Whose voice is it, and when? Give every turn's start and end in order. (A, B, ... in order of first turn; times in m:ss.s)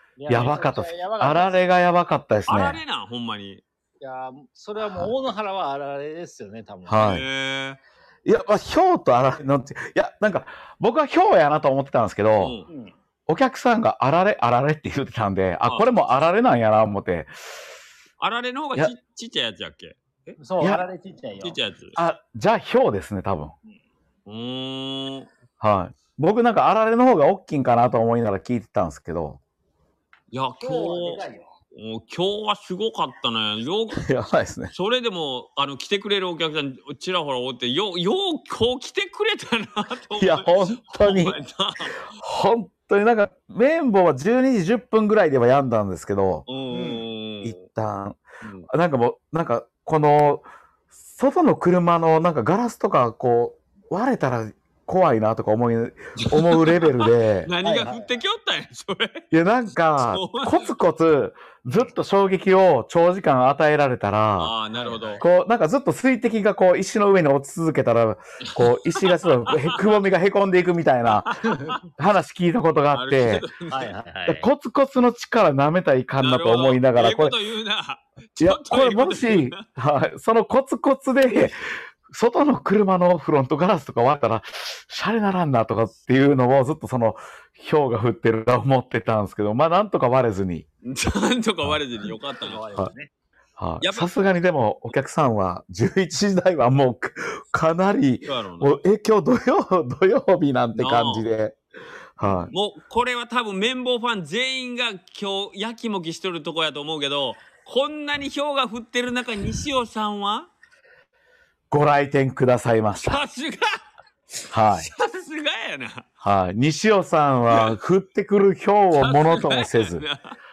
0:00.2-0:01.6 A
0:00.3-0:02.8 B
0:02.5-0:03.6 C
0:04.0-0:07.1 A
0:04.8-0:05.1 B
0:06.9-0:07.3 B
0:07.0-0:07.8 C
0:08.2-0:12.6 B
0:12.4-0:12.7 C
0:12.7-0:13.0 A
0:13.3-0:17.3 B
0:15.6-0:15.9 C
0:18.2-0:20.4 C
0:20.4-0:21.6 A
0:21.4-0:22.0 C
0:22.0-0:23.5 B
0:24.3-0:25.3 C
0:25.6-0:29.4 B
0:30.3-0:34.1 C
0:30.6-0:31.5 A
0:34.0-0:34.7 B
0:34.7-0:42.0 C
0:40.2-0:41.4 B
0:42.1-0:46.5 B
0:46.5-0:47.6 C
0:46.7-0:47.0 A
0:47.4-0:50.4 B
0:48.4-0:48.7 C
0:51.1-0:57.5 B
0:56.2-0:59.2 C
0:57.6-0:58.2 A
0:59.3-1:04.5 B
1:00.0-1:00.7 C
1:04.4-1:05.2 C
1:04.8-1:05.2 A
1:05.2-1:13.4 B
1:08.5-1:09.8 C
1:11.1-1:11.6 C
1:11.5-1:11.8 A
1:12.9-1:13.9 C
1:13.7-1:14.5 A
1:14.3-1:17.4 B
1:16.2-1:19.6 C
1:18.4-1:30.7 B
1:30.8-1:32.6 C
1:32.4-1:33.1 A
1:33.6-1:41.6 B
1:33.8-1:34.1 C
1:38.2-1:38.7 C
1:40.8-1:41.3 C
1:42.2-1:42.5 B
1:42.2-1:50.5 C
1:51.7-1:53.2 B
1:53.0-1:53.8 C
1:54.5-1:54.9 B
1:54.7-1:56.1 C
1:56.2-2:00.0 B
1:57.5-1:57.8 C
1:58.9-2:00.4 C